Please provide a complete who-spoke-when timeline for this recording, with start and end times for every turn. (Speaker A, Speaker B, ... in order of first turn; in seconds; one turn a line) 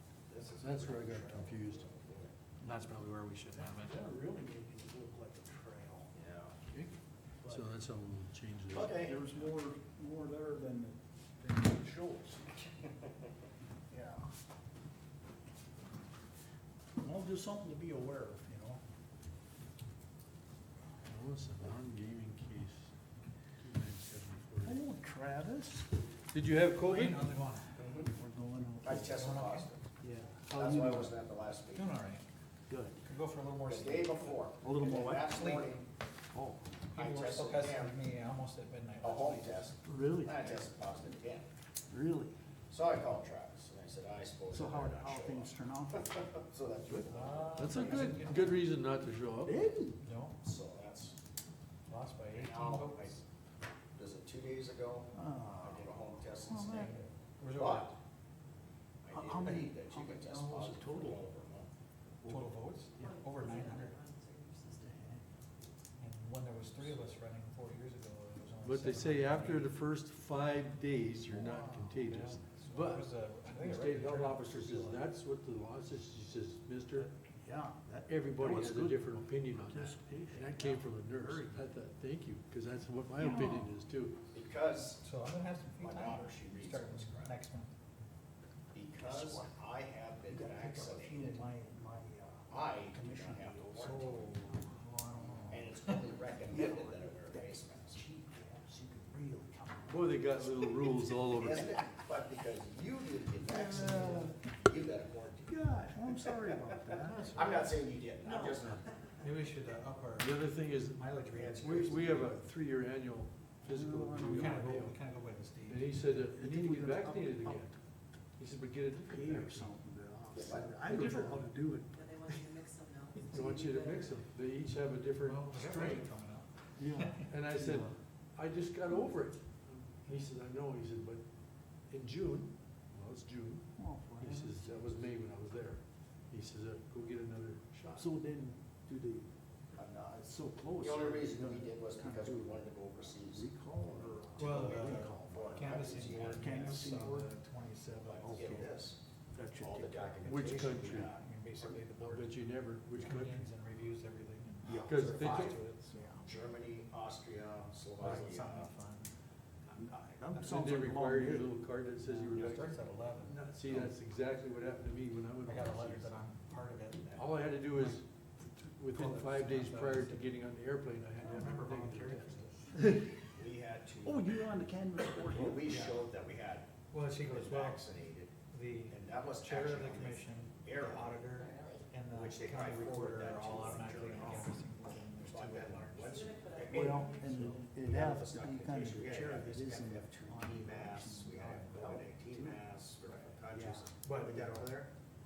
Speaker A: 0.3-2.3
Speaker B: 0.5-1.8
Speaker C: 2.6-3.9
Speaker D: 3.6-6.1
Speaker A: 6.1-6.5
Speaker B: 7.5-9.5
Speaker A: 8.7-9.2
Speaker D: 8.8-12.5
Speaker D: 13.9-14.3
Speaker D: 17.0-18.8
Speaker B: 21.0-22.9
Speaker B: 23.6-24.8
Speaker D: 24.6-25.9
Speaker B: 26.3-27.3
Speaker C: 26.8-27.7
Speaker A: 27.8-28.1
Speaker D: 28.1-29.0
Speaker A: 28.8-29.9
Speaker C: 28.9-29.7
Speaker D: 30.0-31.1
Speaker A: 30.5-31.9
Speaker C: 31.7-32.2
Speaker D: 32.7-33.0
Speaker C: 33.0-34.4
Speaker A: 33.6-35.9
Speaker D: 34.6-35.5
Speaker C: 35.3-35.7
Speaker D: 36.3-36.6
Speaker C: 36.9-39.7
Speaker A: 37.0-38.0
Speaker A: 39.0-41.5
Speaker D: 39.8-40.5
Speaker D: 41.9-42.4
Speaker A: 42.7-48.1
Speaker D: 44.5-46.2
Speaker C: 47.1-48.7
Speaker B: 47.5-49.6
Speaker D: 47.7-48.1
Speaker D: 49.4-50.0
Speaker C: 50.0-50.4
Speaker A: 50.4-51.1
Speaker C: 51.9-53.2
Speaker A: 52.3-53.2
Speaker A: 54.0-57.9
Speaker D: 55.1-55.9
Speaker D: 56.4-57.0
Speaker C: 57.4-58.0
Speaker A: 59.0-61.7
Speaker D: 59.1-61.2
Speaker D: 62.2-62.5
Speaker C: 62.3-63.9
Speaker E: 63.0-65.2
Speaker D: 64.8-65.2
Speaker C: 66.0-69.7
Speaker B: 68.6-77.1
Speaker D: 71.3-72.0
Speaker C: 72.0-75.0
Speaker D: 76.9-81.7
Speaker B: 78.1-84.2
Speaker D: 83.1-83.7
Speaker A: 84.3-85.0
Speaker C: 85.0-87.7
Speaker A: 85.8-87.3
Speaker A: 88.7-91.5
Speaker D: 89.0-89.5
Speaker D: 90.3-94.6
Speaker A: 92.5-94.3
Speaker C: 93.8-96.0
Speaker D: 95.2-95.5
Speaker A: 95.4-98.0
Speaker D: 96.5-100.7
Speaker B: 99.9-101.8
Speaker A: 100.6-108.8
Speaker D: 103.4-104.4
Speaker D: 105.5-107.7
Speaker E: 108.2-108.6
Speaker C: 109.2-110.4
Speaker B: 110.2-111.1
Speaker C: 110.9-112.1
Speaker A: 111.3-112.3
Speaker B: 111.6-114.9
Speaker D: 113.6-114.6
Speaker C: 114.2-116.1
Speaker B: 115.7-117.7
Speaker D: 116.3-117.6
Speaker B: 118.4-119.7
Speaker D: 119.1-122.0
Speaker A: 120.3-120.7
Speaker B: 120.7-121.5
Speaker E: 121.9-124.2
Speaker B: 123.2-126.1
Speaker C: 125.2-127.3
Speaker D: 126.8-127.9
Speaker B: 127.3-131.2
Speaker B: 131.9-133.6
Speaker D: 133.8-134.9
Speaker B: 134.2-138.1
Speaker D: 137.9-139.3
Speaker A: 139.8-140.2
Speaker D: 140.1-142.7
Speaker A: 140.8-147.0
Speaker D: 143.2-145.5
Speaker C: 144.4-148.5
Speaker D: 146.3-147.3
Speaker A: 148.0-149.0
Speaker D: 148.2-148.8
Speaker D: 149.3-150.1
Speaker A: 149.6-151.8
Speaker C: 150.2-156.3
Speaker B: 150.2-151.1
Speaker B: 151.9-153.5
Speaker D: 154.6-156.2
Speaker B: 154.7-155.6
Speaker A: 156.2-158.7
Speaker C: 158.0-159.1
Speaker D: 159.7-161.5
Speaker B: 160.4-166.1
Speaker C: 162.0-163.4
Speaker C: 165.4-168.0
Speaker B: 167.1-168.0
Speaker B: 168.6-173.0
Speaker C: 168.9-170.3
Speaker C: 171.2-172.8
Speaker A: 173.3-174.3
Speaker D: 174.0-175.7
Speaker A: 175.2-178.3
Speaker C: 175.5-176.1
Speaker C: 176.9-177.8
Speaker C: 178.5-186.2
Speaker A: 178.9-181.3
Speaker E: 181.3-181.9
Speaker A: 182.1-184.5
Speaker D: 184.1-184.5
Speaker A: 185.2-194.9
Speaker E: 186.0-187.6
Speaker D: 186.7-193.9
Speaker C: 194.0-194.6